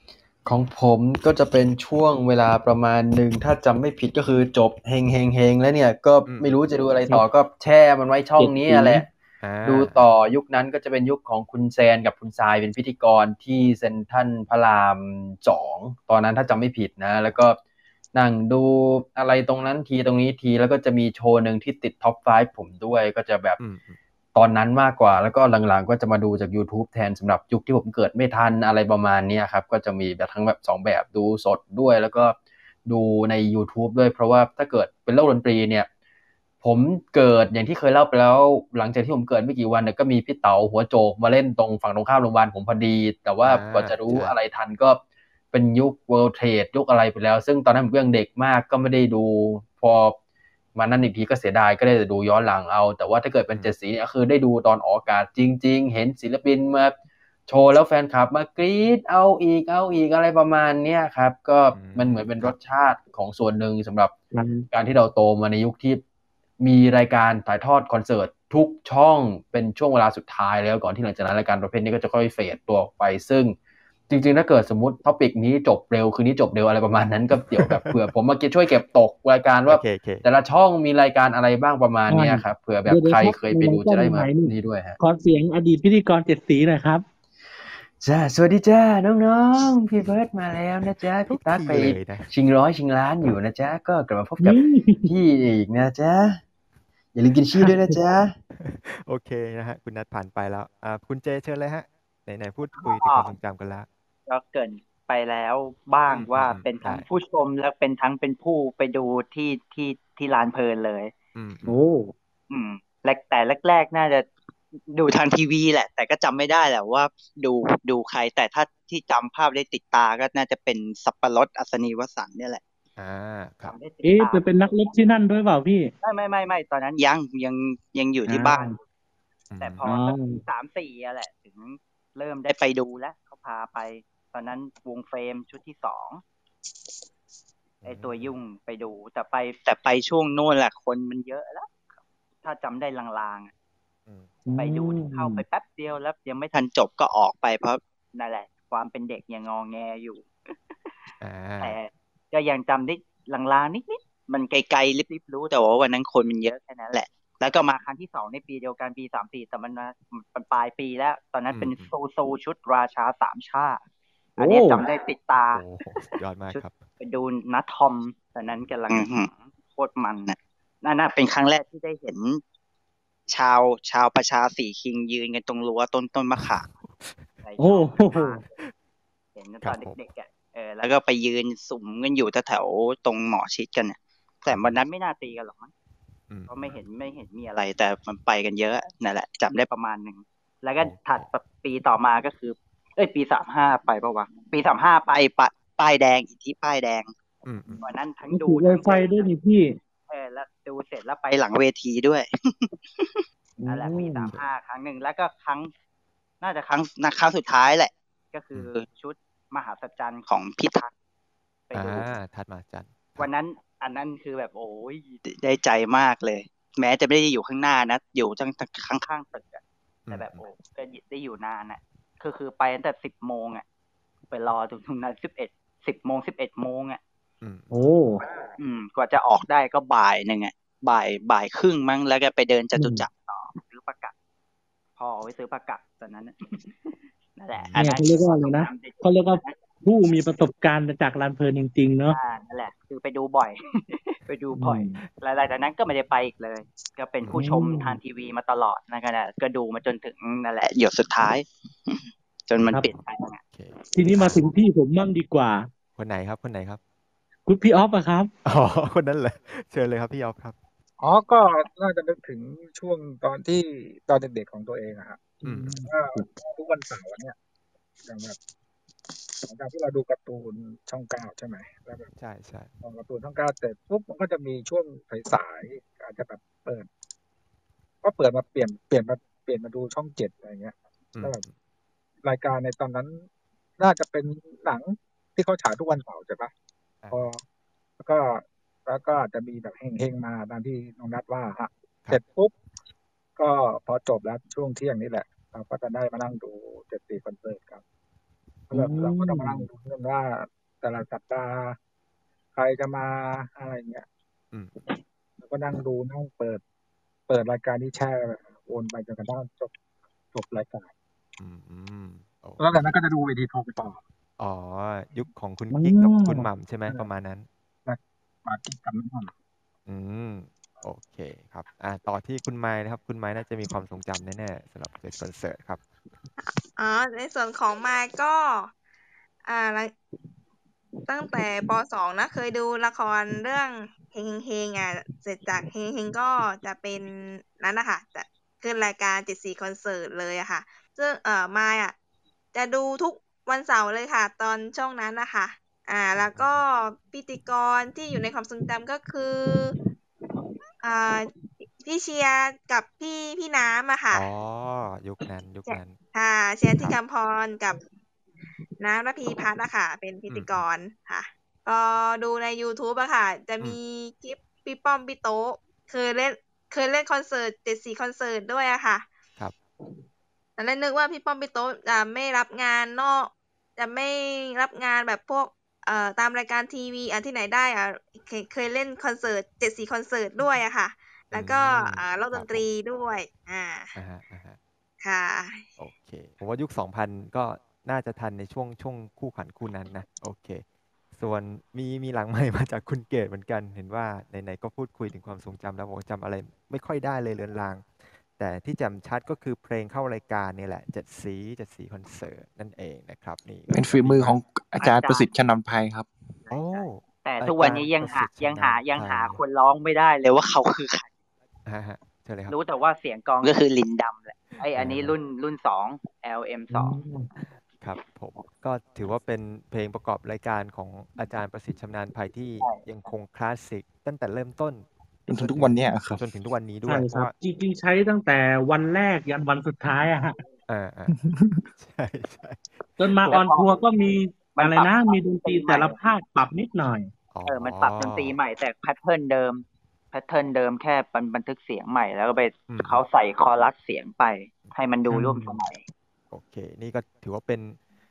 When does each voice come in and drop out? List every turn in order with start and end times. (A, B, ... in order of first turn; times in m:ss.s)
0:00.5-0:09.1 A
0:06.3-0:06.6 B
0:08.4-0:09.0 C
0:09.4-0:10.0 B
0:09.7-0:17.6 A
0:18.2-0:23.6 A
0:23.6-0:24.0 B
0:24.4-0:35.9 A
0:36.6-0:45.0 A
0:43.4-0:44.4 B
0:45.5-0:50.2 A
0:50.8-0:56.9 A
0:57.5-1:04.1 A
1:01.7-1:02.6 B
1:04.3-1:04.7 C
1:04.7-1:06.0 A
1:06.6-1:13.5 A
1:14.1-1:25.0 A
1:17.5-1:18.0 B
1:19.7-1:20.2 B
1:22.1-1:27.0 C
1:28.0-1:36.4 A
1:31.3-1:32.3 B
1:34.4-1:35.1 C
1:37.2-1:38.3 A
1:37.6-1:37.9 C
1:38.6-1:43.9 B
1:42.7-1:43.3 D
1:44.3-1:51.1 D
1:46.1-1:47.1 B
1:51.4-1:51.8 B
1:51.7-1:52.1 C
1:52.5-1:54.3 D
1:54.9-2:02.6 D
2:03.0-2:03.8 B
2:03.6-2:05.2 D
2:04.0-2:05.9 C
2:06.0-2:08.7 D
2:08.3-2:08.8 C
2:09.5-2:09.9 B
2:09.6-2:16.2 D
2:09.9-2:10.4 C
2:17.8-2:18.4 B
2:17.9-2:21.8 D
2:22.4-2:23.5 D
2:24.5-2:25.4 C
2:24.6-2:30.3 D
2:31.2-2:31.8 B
2:31.6-2:43.8 D
2:41.5-2:41.9 B
2:44.4-2:45.6 D
2:44.4-2:44.8 C
2:45.5-2:46.8 B
2:46.5-2:52.4 D
2:53.3-2:56.7 D
2:56.4-2:57.2 B
2:57.4-2:58.4 D
2:57.6-2:58.4 C
2:59.4-3:05.7 D
2:59.6-3:00.0 B
3:04.5-3:04.8 B
3:06.3-3:06.8 B
3:06.5-3:17.1 D
3:10.8-3:11.3 B
3:17.4-3:17.9 B
3:17.8-3:19.3 D
3:18.3-3:19.7 C
3:20.1-3:25.7 D
3:23.6-3:24.3 C
3:26.4-3:30.9 D
3:31.7-3:32.1 D
3:31.7-3:33.3 B
3:33.2-3:43.6 D
3:40.1-3:40.4 B
3:44.3-3:47.0 D
3:47.4-3:47.9 B
3:47.7-3:48.2 C
3:48.6-3:54.1 D
3:52.8-3:53.0 C
3:55.0-3:59.6 D
3:57.5-3:57.8 B
3:57.8-4:02.2 C
4:02.1-4:13.4 D
4:04.6-4:05.0 C
4:07.3-4:08.0 C
4:12.6-4:14.4 B
4:13.9-4:15.7 C
4:16.0-4:16.8 B
4:17.5-4:18.3 C
4:18.4-4:20.6 B
4:21.0-4:27.4 E
4:25.4-4:25.7 C
4:25.4-4:25.8 B
4:28.0-4:28.4 E
4:29.5-4:32.1 E
4:32.2-4:32.7 B
4:32.8-4:36.9 E
4:38.0-4:41.4 E
4:41.2-4:41.5 B
4:42.2-4:43.2 E
4:43.8-4:46.5 E
4:47.1-4:47.4 E
4:48.0-4:52.5 E
4:53.4-4:57.8 E
4:58.7-4:59.7 C
4:58.7-5:01.8 E
5:02.6-5:04.1 E
5:05.4-5:06.6 E
5:07.3-5:09.7 E
5:10.3-5:10.9 E
5:11.4-5:12.6 B
5:12.6-5:14.0 E
5:14.4-5:17.5 B
5:15.7-5:16.5 C
5:17.9-5:19.3 E
5:19.9-5:25.8 B
5:26.4-5:28.7 F
5:29.5-5:29.9 F
5:31.1-5:42.0 F
5:42.5-5:49.8 F
5:46.2-5:46.6 B
5:50.8-5:51.3 F
5:51.8-5:54.2 F
5:54.1-5:56.0 B
5:55.7-5:57.8 F
5:58.8-6:09.1 F
6:00.3-6:00.6 B
6:10.6-6:24.0 F
6:21.3-6:22.6 B
6:24.0-6:24.6 B
6:25.0-6:25.7 F
6:25.8-6:30.6 B
6:31.1-6:44.4 B
6:43.7-6:46.1 G
6:44.8-6:45.3 D
6:46.5-6:51.1 D
6:46.5-6:49.4 B
6:51.7-6:52.6 B
6:52.5-6:57.0 D
6:54.7-6:55.2 B
6:56.7-6:57.3 C
6:57.8-7:07.3 B
7:02.6-7:03.1 D
7:05.3-7:06.2 G
7:06.9-7:10.4 C
7:10.7-7:11.2 B
7:11.1-7:11.6 G
7:11.8-7:12.8 B
7:13.0-7:17.1 C
7:13.3-7:13.7 D
7:14.6-7:16.0 D
7:17.3-7:18.4 B
7:17.5-7:25.8 D
7:22.7-7:23.0 B
7:25.1-7:25.6 C
7:26.3-7:27.8 B